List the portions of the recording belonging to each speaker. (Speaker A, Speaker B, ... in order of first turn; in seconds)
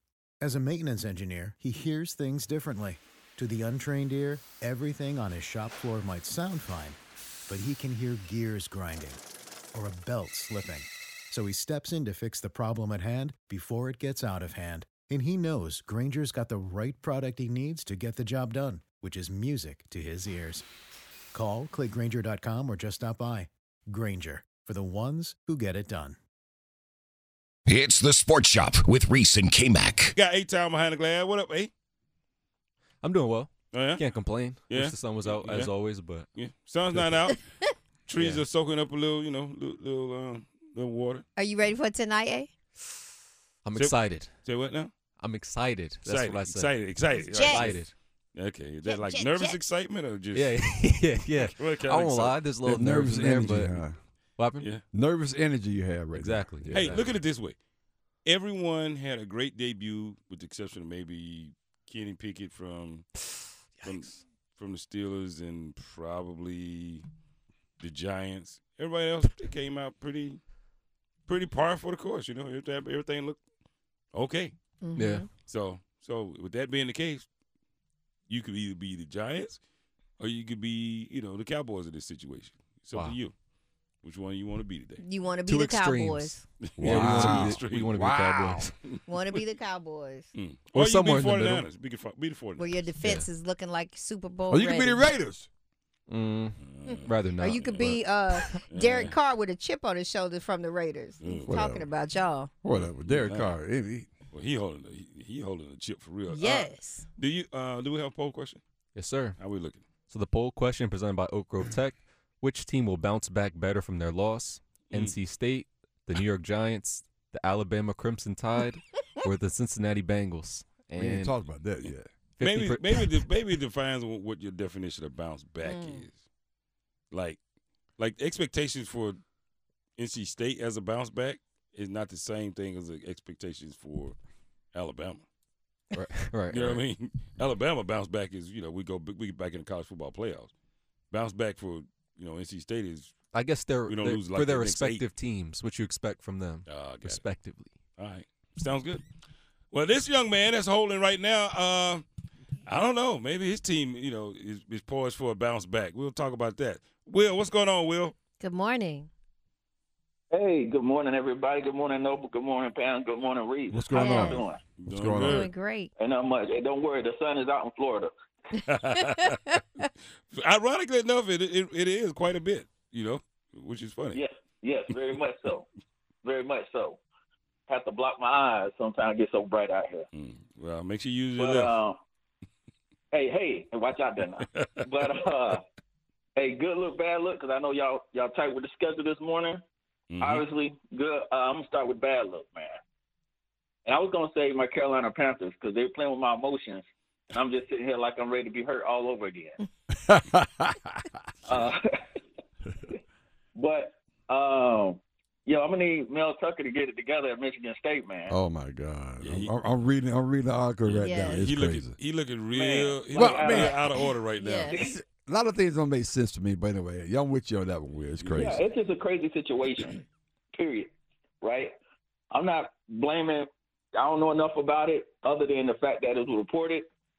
Speaker A: 0.4-7.0, 7.5-9.2, 9.7-20.6, 21.3-26.2
Speaker B: 27.7-30.1
Speaker C: 30.1-31.7, 33.7-34.1, 34.7-35.7, 36.3-37.4, 38.1-41.2, 43.8-44.9, 46.0-50.6, 51.3-52.4, 56.7-57.6, 58.2-63.1, 63.8-67.0, 67.8-70.4, 71.3-73.4, 74.1-74.5, 75.5-77.2, 78.3-79.6, 80.2-83.3, 84.0-85.0, 86.8-87.9, 88.9-89.4, 90.3-92.9, 96.6-98.0, 98.7-99.2, 101.2-101.6, 102.7-103.5, 104.3-108.6, 109.4-109.8, 114.9-115.2, 122.4-126.2, 127.1-127.4, 128.0-129.2, 129.9-134.2, 134.7-135.2, 136.5-140.5, 141.1-143.2, 143.9-145.1, 146.7-147.2, 148.0-149.0, 149.7-152.0, 152.7-158.1, 164.8-165.5, 168.6-169.4, 170.3-174.2, 180.1-181.8, 184.4-184.8, 190.1-190.4, 209.2-209.5, 210.8-214.9, 218.2-218.6
Speaker D: 33.0-36.3, 36.9-37.2, 38.1-38.4, 43.6-44.3, 45.2-46.8, 47.4-47.9, 50.3-53.8, 54.4-54.8, 56.1-57.1, 63.8-64.1, 75.0-75.3, 82.9-83.2, 85.5-88.7, 90.7-91.7, 93.0-93.3, 96.1-98.4, 108.9-109.4, 110.1-121.4, 122.4-123.2, 135.9-136.8, 143.3-147.7
Speaker E: 41.4-42.5, 47.1-47.8, 48.8-49.6, 74.8-75.3, 85.0-86.4, 89.0-90.3, 92.6-95.1, 96.9-102.5, 106.3-107.0, 125.6-126.0, 158.4-159.1, 163.9-164.4, 165.1-165.9, 169.0-169.8, 211.0-211.5, 214.3-214.8
Speaker F: 52.6-53.9, 54.9-57.0, 86.8-88.7, 94.5-95.5, 101.5-101.9, 102.6-104.1, 121.0-122.1, 163.7-165.5, 199.9-201.0, 208.3-211.9, 213.1-213.8, 214.7-218.6
Speaker G: 160.3-164.6, 166.0-168.1, 174.1-175.7, 176.2-177.0, 177.7-180.1, 181.4-182.0, 183.1-185.6, 186.3-189.6, 190.2-192.8, 193.8-199.6, 201.4-202.2, 203.5-208.3, 212.5-213.9, 214.7-215.0, 218.3-221.7, 222.3-226.9